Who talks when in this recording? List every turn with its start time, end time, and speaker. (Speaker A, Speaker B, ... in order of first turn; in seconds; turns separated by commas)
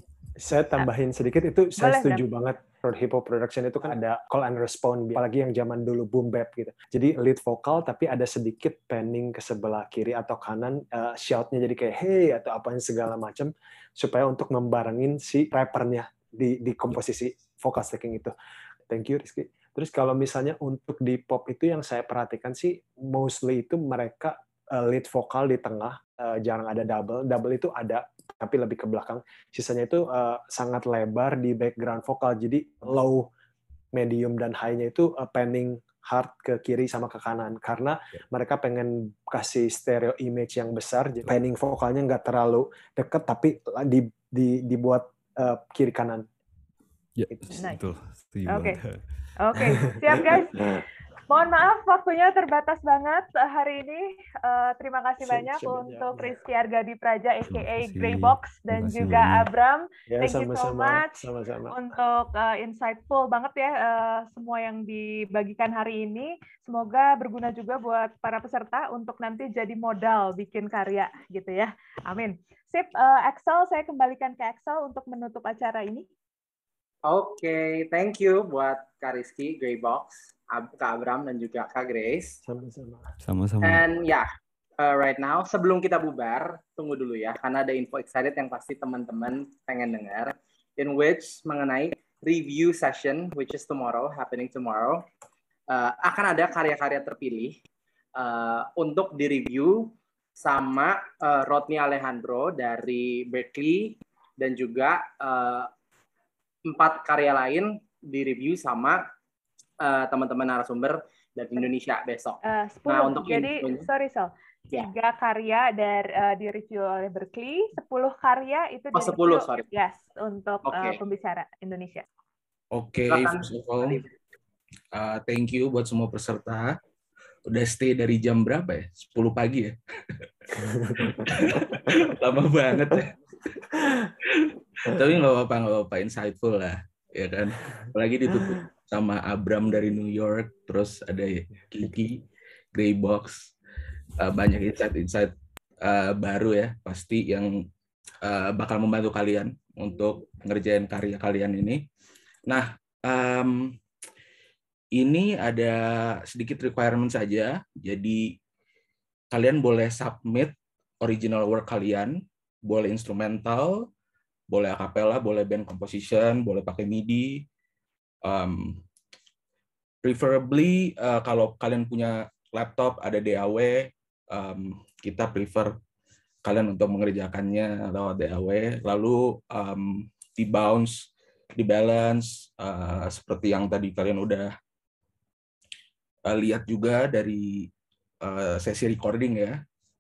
Speaker A: 0.4-18.3, Speaker B: 1.8-2.2, Speaker A: 18.9-33.3, Speaker A: 33.9-46.3, Speaker C: 47.2-49.0, Speaker B: 47.5-47.8, Speaker B: 48.5-48.8, Speaker B: 49.4-50.6, Speaker A: 50.1-50.8, Speaker B: 51.3-76.1, Speaker A: 55.2-56.3, Speaker C: 57.5-59.5, Speaker A: 60.1-61.8, Speaker D: 77.0-82.4, Speaker A: 82.4-83.1, Speaker C: 83.2-83.9, Speaker D: 83.6-95.1, Speaker D: 95.7-97.6, Speaker D: 98.2-105.7, Speaker D: 106.7-109.0, Speaker D: 109.8-113.9, Speaker B: 112.4-122.0, Speaker D: 118.9-119.7, Speaker D: 120.7-121.0, Speaker E: 122.7-124.0, Speaker D: 123.1-124.1, Speaker E: 124.9-126.7, Speaker E: 127.5-143.5, Speaker E: 144.2-145.3, Speaker E: 145.8-147.5, Speaker E: 148.2-151.8, Speaker E: 152.5-153.7, Speaker E: 155.0-155.8, Speaker E: 156.3-158.2, Speaker E: 159.3-162.2, Speaker E: 162.7-163.9, Speaker E: 164.5-167.5, Speaker E: 168.3-168.8, Speaker E: 170.0-175.7, Speaker E: 176.5-184.5, Speaker E: 186.3-187.7, Speaker E: 188.2-189.6